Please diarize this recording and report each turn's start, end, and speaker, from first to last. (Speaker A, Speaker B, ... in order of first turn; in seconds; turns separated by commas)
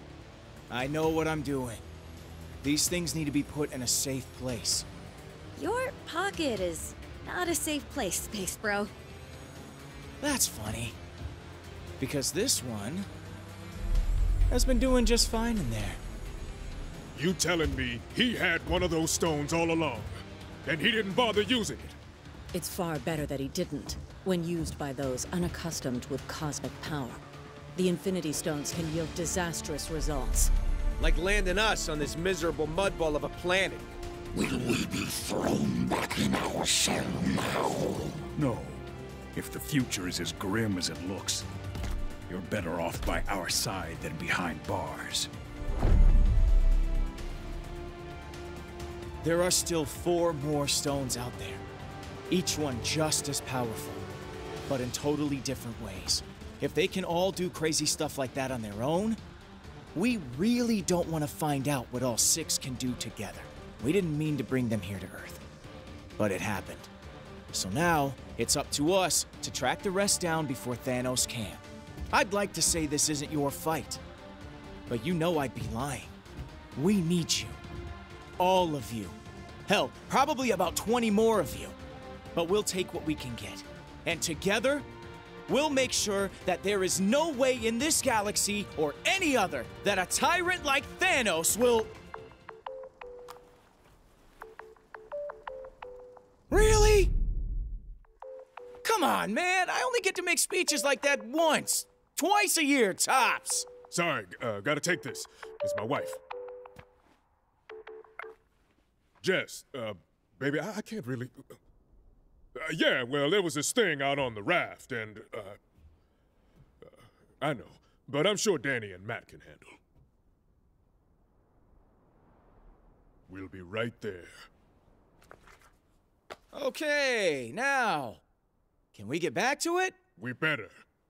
Speaker A: 0.7-1.8, Speaker A: 2.6-4.8, Speaker B: 5.5-8.9, Speaker A: 10.2-11.0, Speaker A: 12.0-13.1, Speaker A: 14.5-16.0, Speaker C: 17.1-22.0, Speaker D: 22.5-27.2, Speaker D: 27.7-30.5, Speaker E: 31.0-33.9, Speaker F: 34.3-38.1, Speaker G: 38.3-38.8, Speaker G: 39.3-41.5, Speaker G: 42.3-45.3, Speaker A: 49.2-51.6, Speaker A: 52.3-54.0, Speaker A: 54.7-59.2, Speaker A: 59.9-65.4, Speaker A: 66.2-66.9, Speaker A: 67.5-74.0, Speaker A: 74.9-76.1, Speaker A: 76.7-77.6, Speaker A: 78.4-81.8, Speaker A: 82.3-84.9, Speaker A: 85.5-91.9, Speaker A: 96.5-97.1, Speaker A: 98.8-103.8, Speaker C: 103.8-106.2, Speaker C: 109.2-111.5, Speaker C: 112.5-115.6, Speaker C: 117.4-119.8, Speaker C: 123.3-124.3, Speaker A: 126.5-128.2, Speaker A: 128.9-130.0, Speaker C: 130.2-130.7